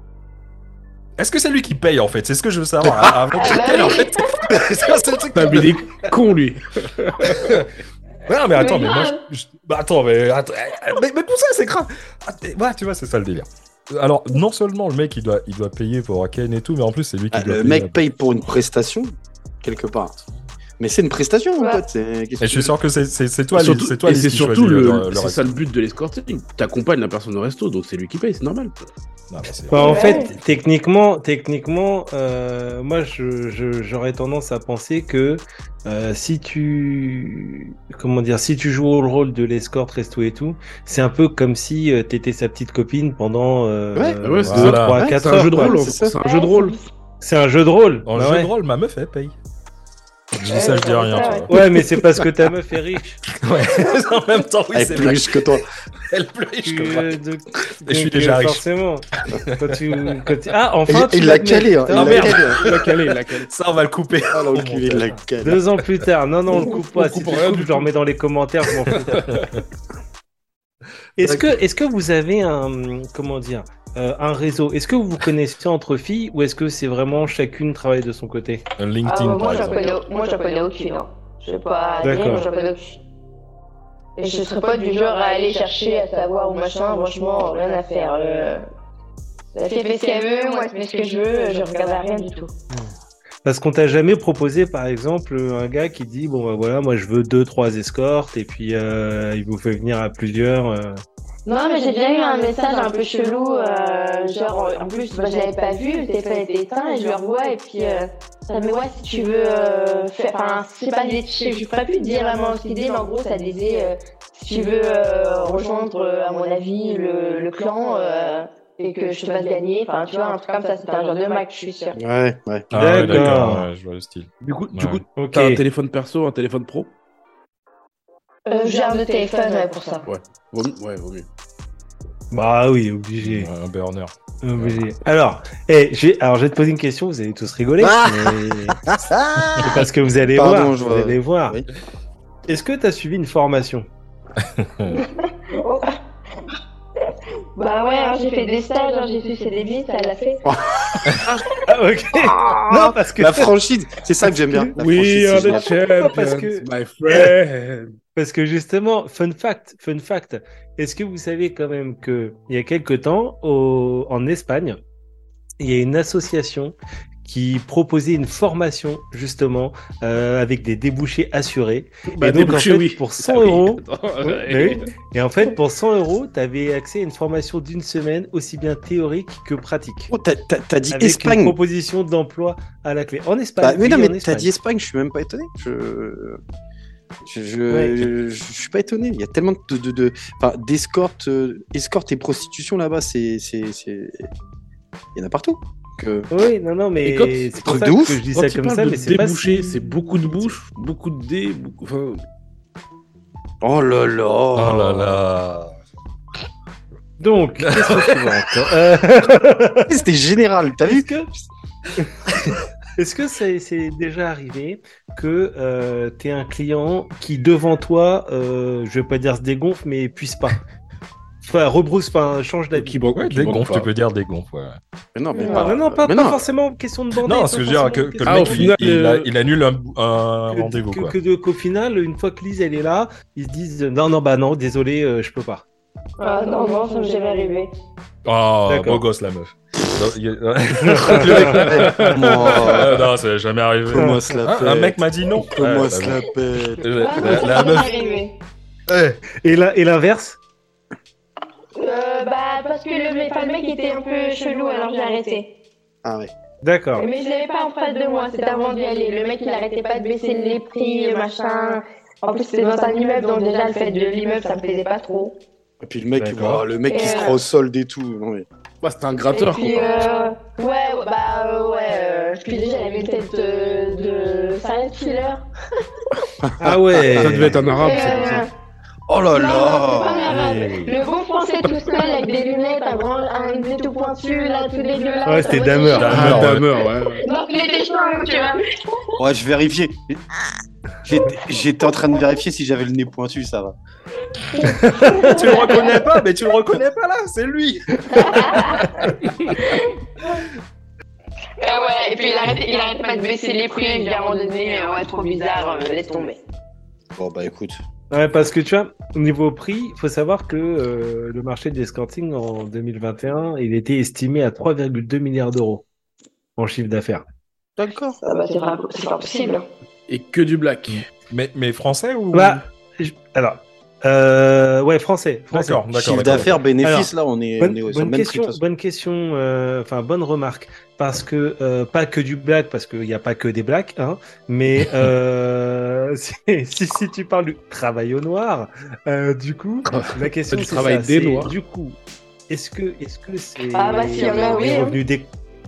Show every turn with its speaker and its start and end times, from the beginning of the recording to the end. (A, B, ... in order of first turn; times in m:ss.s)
0:01.2-0:06.1 A
0:03.3-0:04.5 B
0:05.3-0:07.6 C
0:07.2-0:07.7 A
0:08.3-0:18.0 A
0:08.6-0:09.2 B
0:17.3-0:20.2 D
0:20.8-0:22.7 D
0:21.6-0:21.8 B
0:22.4-0:25.5 A
0:23.6-0:28.7 C
0:29.3-0:30.6 A
0:29.7-0:45.8 E
0:29.7-0:30.3 B
0:44.0-0:46.2 D
0:44.2-0:46.8 C
0:44.5-0:45.1 A
0:46.2-0:46.8 B
0:47.2-0:48.5 E
0:48.1-0:49.4 A
0:50.3-0:51.5 A
0:50.5-0:51.5 B
0:51.5-0:53.2 E
0:53.3-0:55.4 A
0:54.7-0:55.6 D
0:56.1-0:57.2 A
0:56.6-1:02.5 E
0:57.8-0:58.6 A
0:59.3-0:59.8 A
1:00.9-1:02.8 D
1:01.9-1:02.9 A
1:02.5-1:03.5 C
1:03.4-1:05.2 A
1:04.3-1:05.6 D
1:05.4-1:09.3 E
1:06.6-1:07.9 C
1:09.0-1:09.5 C
1:11.2-1:18.6 E
1:11.2-1:11.5 A
1:18.8-1:20.0 A
1:19.0-1:23.0 B
1:22.0-1:22.4 E
1:24.2-1:28.6 B
1:29.5-1:32.5 B
1:33.4-1:41.0 E
1:41.5-2:02.0 B
2:02.0-2:02.7 D
2:02.7-2:05.0 A
2:02.7-2:03.7 E
2:04.4-2:06.9 C
2:05.2-2:05.6 E
2:08.5-2:10.0 B
2:10.0-2:11.3 C
2:12.3-2:13.5 E
2:13.2-2:14.8 A
2:14.4-2:18.8 E
2:17.8-2:21.7 D
2:19.6-2:21.6 E
2:22.5-2:23.9 E
2:24.4-2:25.0 A
2:24.9-2:26.0 B
2:27.6-2:30.5 B
2:30.5-2:31.2 D
2:31.5-2:33.5 E
2:32.7-2:35.8 D
2:34.8-2:38.0 C
2:35.4-2:37.3 E
2:38.2-2:44.8 E
2:45.6-3:00.1 E
2:52.1-2:54.9 C
3:00.1-3:01.6 D
3:00.9-3:04.5 E
3:03.6-3:06.4 D
3:07.2-3:14.3 D
3:07.7-3:08.1 E
3:15.2-3:16.3 D
3:16.3-3:20.5 E
3:17.0-3:17.5 C
3:17.6-3:18.2 D
3:18.3-3:22.2 C
3:23.6-3:25.2 D
3:24.5-3:25.8 A
3:27.2-3:29.9 E
3:27.6-3:28.4 A
3:29.9-3:31.1 D
3:30.8-3:31.3 E
3:33.0-3:40.6 E
3:41.4-3:43.0 E
3:42.7-3:43.9 C
3:43.2-3:44.8 A
3:45.2-3:46.4 D
3:45.3-3:45.7 B
3:45.5-3:48.8 E
3:47.2-3:51.2 A
3:48.3-3:49.3 C
3:50.5-3:55.6 E
3:56.2-3:57.7 B
3:58.2-4:07.9 A
3:58.7-3:59.0 E
4:00.8-4:01.9 E
4:01.1-4:03.0 D
4:03.9-4:07.6 D
4:04.0-4:04.2 E
4:07.0-4:08.4 B
4:08.9-4:09.2 A
4:09.4-4:10.4 E
4:11.8-4:15.5 B
4:16.0-4:16.3 D
4:16.6-4:17.1 E
4:17.0-4:25.4 B
4:25.8-4:28.5 D
4:26.2-4:26.6 E
4:26.9-4:27.4 B
4:28.8-4:30.1 C
4:29.3-4:35.5 B
4:36.4-4:37.6 D
4:36.6-4:37.6 E
4:37.1-4:38.5 C
4:37.8-4:38.5 B
4:39.1-4:40.5 D
4:39.3-4:46.4 B
4:40.3-4:40.9 E
4:45.3-4:46.6 E
4:46.0-4:46.7 A
4:46.1-4:47.2 C
4:47.2-4:49.2 B
4:49.2-4:50.2 D
4:51.0-4:53.8 D
4:54.5-4:55.9 B
4:54.7-4:55.6 E
4:55.1-4:58.6 A
4:58.1-4:59.8 B
5:01.6-5:06.4 B
5:07.2-5:07.8 D
5:08.1-5:15.8 E
5:16.6-5:17.2 E
5:17.8-5:18.2 D
5:18.2-5:19.7 B
5:20.1-5:21.1 C
5:20.9-5:22.6 A
5:22.3-5:25.9 E
5:25.5-5:26.6 A
5:25.9-5:28.6 D
5:26.8-5:42.0 E
5:39.9-5:41.5 C
5:42.5-5:45.3 E
5:43.7-5:45.0 B